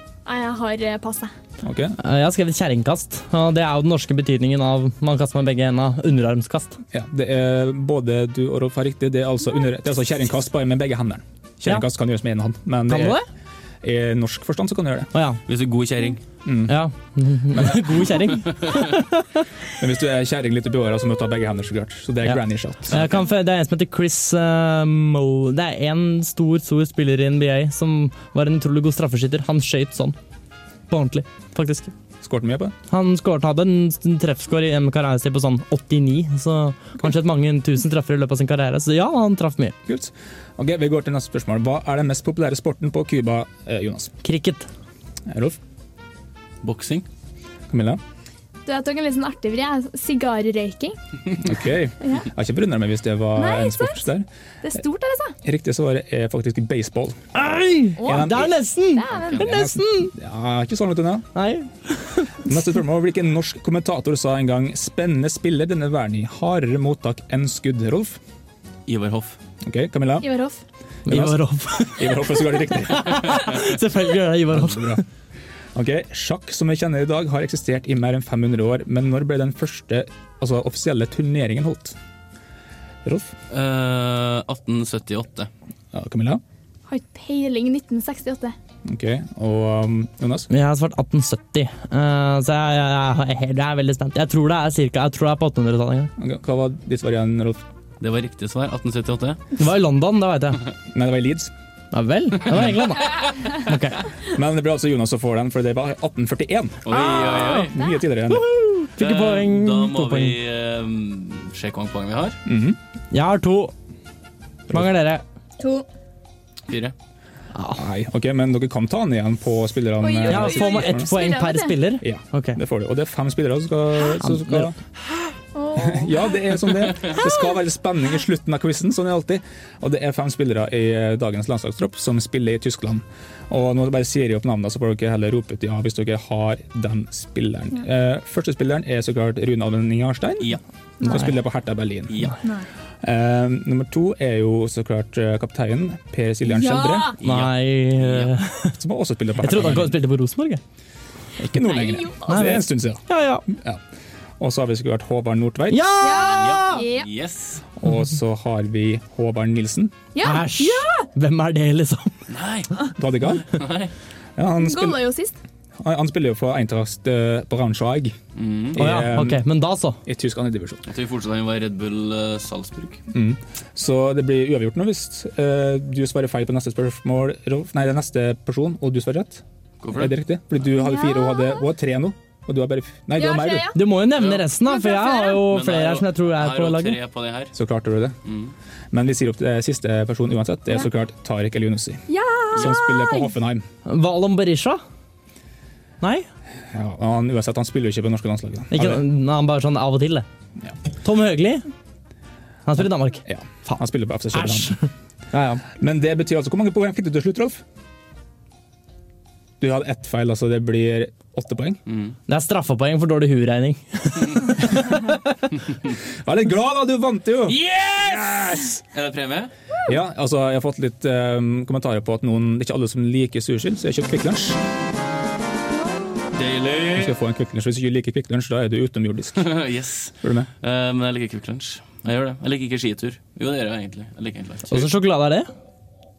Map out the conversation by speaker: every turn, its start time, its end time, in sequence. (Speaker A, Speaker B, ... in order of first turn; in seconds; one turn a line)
Speaker A: 0.2-1.3
Speaker B: 1.6-1.9
Speaker C: 2.0-6.8
Speaker B: 6.9-13.2
Speaker C: 12.9-13.2
Speaker B: 13.8-15.1
Speaker C: 15.1-15.4
Speaker D: 15.4-16.2
Speaker B: 16.4-16.8
Speaker C: 16.7-19.4
Speaker B: 17.5-18.0
Speaker B: 19.8-23.1
Speaker C: 22.2-30.1
Speaker C: 30.9-31.9
Speaker B: 32.2-32.7
Speaker C: 32.9-39.8
Speaker B: 39.9-44.1
Speaker C: 44.2-44.7
Speaker B: 45.3-45.6
Speaker D: 46.6-47.0
Speaker B: 47.7-48.0
Speaker A: 48.6-51.0
Speaker B: 51.4-54.3
Speaker A: 53.4-54.0
Speaker A: 54.6-55.4
Speaker B: 55.4-57.2
Speaker C: 57.3-60.1
Speaker A: 58.0-59.6
Speaker B: 58.0-61.3
Speaker C: 61.3-62.4
Speaker B: 62.4-68.2
Speaker D: 68.9-69.4
Speaker B: 69.6-70.3
Speaker A: 70.2-70.6
Speaker B: 71.1-73.6
Speaker C: 71.1-75.0
Speaker B: 74.5-75.0
Speaker B: 75.7-82.0
Speaker B: 83.0-83.3
Speaker D: 83.5-85.5
Speaker B: 85.9-86.4
Speaker A: 86.9-88.5
Speaker B: 88.8-90.5
Speaker C: 90.5-96.1
Speaker B: 96.2-97.6
Speaker D: 98.0-99.4
Speaker C: 99.6-100.6
Speaker B: 100.9-101.5
Speaker C: 101.9-104.0
Speaker B: 104.2-106.8
Speaker D: 106.8-107.8
Speaker C: 106.9-107.7
Speaker B: 107.7-108.5
Speaker C: 108.3-110.3
Speaker D: 109.0-112.4
Speaker B: 112.5-112.8
Speaker C: 113.1-113.7
Speaker C: 114.7-115.2
Speaker A: 115.6-115.8
Speaker D: 116.7-116.9
Speaker C: 117.5-117.8
Speaker B: 117.7-121.1
Speaker A: 120.0-121.8
Speaker C: 120.2-122.6
Speaker B: 122.0-124.8
Speaker C: 124.2-124.7
Speaker A: 125.5-126.4
Speaker B: 125.8-142.3
Speaker A: 127.1-127.5
Speaker A: 141.0-141.3
Speaker D: 142.1-142.3
Speaker B: 143.0-147.1
Speaker A: 146.4-147.1
Speaker D: 147.2-148.3
Speaker C: 147.2-148.8
Speaker B: 148.8-149.9
Speaker C: 149.4-150.6
Speaker B: 151.4-153.8
Speaker A: 151.6-152.6
Speaker C: 152.3-153.4
Speaker B: 154.4-155.8
Speaker C: 155.7-156.8
Speaker A: 156.0-157.1
Speaker D: 156.2-157.6
Speaker B: 157.8-159.9
Speaker A: 160.1-161.0
Speaker C: 160.2-162.1
Speaker D: 162.3-163.9
Speaker B: 163.0-163.6
Speaker B: 164.4-165.0
Speaker A: 164.6-165.4
Speaker B: 165.8-168.2
Speaker D: 168.3-168.8
Speaker B: 168.7-169.4
Speaker C: 168.8-170.0
Speaker B: 170.0-170.8
Speaker D: 170.9-173.0
Speaker B: 173.1-183.7
Speaker D: 179.8-180.1
Speaker A: 180.7-181.6
Speaker A: 183.1-183.8
Speaker C: 183.7-187.0
Speaker D: 184.2-184.4
Speaker A: 184.6-185.4
Speaker D: 185.4-187.5
Speaker B: 187.5-188.2
Speaker D: 188.2-188.5
Speaker B: 188.9-193.6
Speaker A: 192.1-193.3
Speaker C: 193.8-194.8
Speaker C: 196.0-196.2
Speaker B: 196.7-199.0
Speaker C: 198.7-200.2
Speaker C: 201.0-201.6
Speaker C: 202.7-203.8
Speaker B: 203.2-204.8
Speaker C: 204.3-205.6
Speaker B: 205.7-207.6
Speaker B: 209.6-211.8
Speaker D: 211.9-212.1
Speaker C: 212.3-215.2
Speaker B: 216.2-218.7
Speaker D: 217.5-219.5
Speaker B: 219.8-224.6
Speaker D: 226.3-227.2
Speaker B: 226.9-229.5
Speaker D: 229.3-234.9
Speaker B: 230.2-230.5
Speaker C: 234.7-235.5